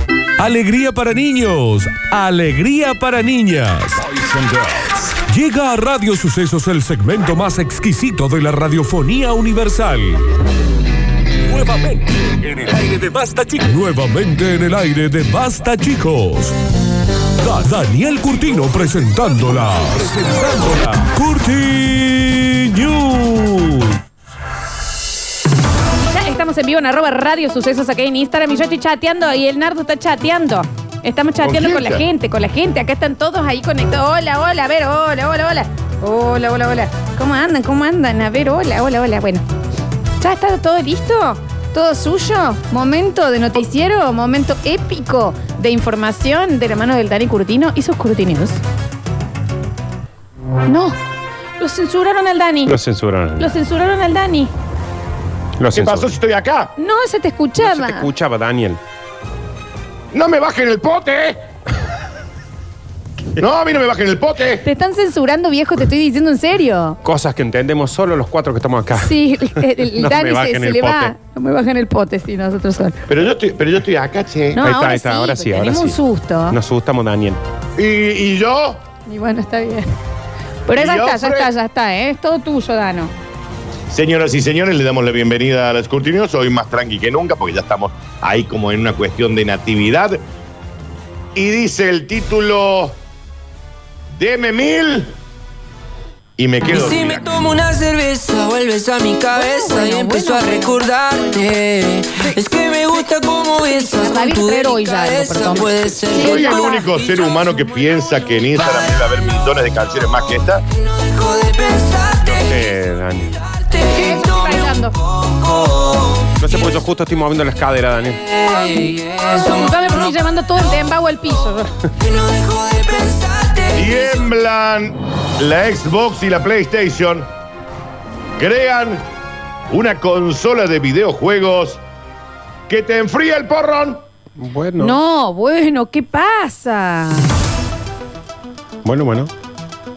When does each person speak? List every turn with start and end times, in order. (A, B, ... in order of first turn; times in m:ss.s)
0:00.4-0:10.2 A
0:11.5-0:16.5 A
0:17.4-0:23.9 A
0:26.0-0:39.4 B
0:31.4-0:32.0 C
0:40.2-0:48.6 B
0:50.7-0:51.0 B
0:51.6-0:52.8 B
0:52.7-0:53.6 D
0:53.4-0:54.5 B
0:55.6-0:56.1 D
0:55.8-0:56.7 C
0:56.8-0:58.1 B
0:57.6-0:58.8 D
1:00.1-1:01.4 C
1:03.4-1:04.6 C
1:04.6-1:07.0 B
1:07.0-1:09.2 D
1:08.9-1:13.0 B
1:09.9-1:11.1 D
1:13.1-1:14.6 C
1:14.5-1:16.6 B
1:14.6-1:16.0 D
1:16.5-1:17.4 D
1:17.8-1:18.8 C
1:19.0-1:19.9 B
1:20.7-1:23.1 B
1:20.7-1:21.5 C
1:23.9-1:30.2 C
1:31.3-1:32.9 C
1:34.1-1:35.1 C
1:36.4-1:37.6 C
1:36.8-1:46.1 E
1:39.3-1:40.9 B
1:43.6-1:47.1 B
1:46.1-1:50.6 C
1:51.0-1:52.2 E
1:52.2-1:53.8 D
1:53.8-1:55.0 B
1:55.3-1:56.0 E
1:56.4-1:58.6 D
1:58.6-2:01.8 B
2:02.1-2:03.7 E
2:03.7-2:07.3 C
2:08.4-2:09.0 C
2:09.7-2:11.8 C
2:12.7-2:14.0 C
2:14.4-2:15.0 D
2:14.8-2:17.3 B
2:18.8-2:19.3 D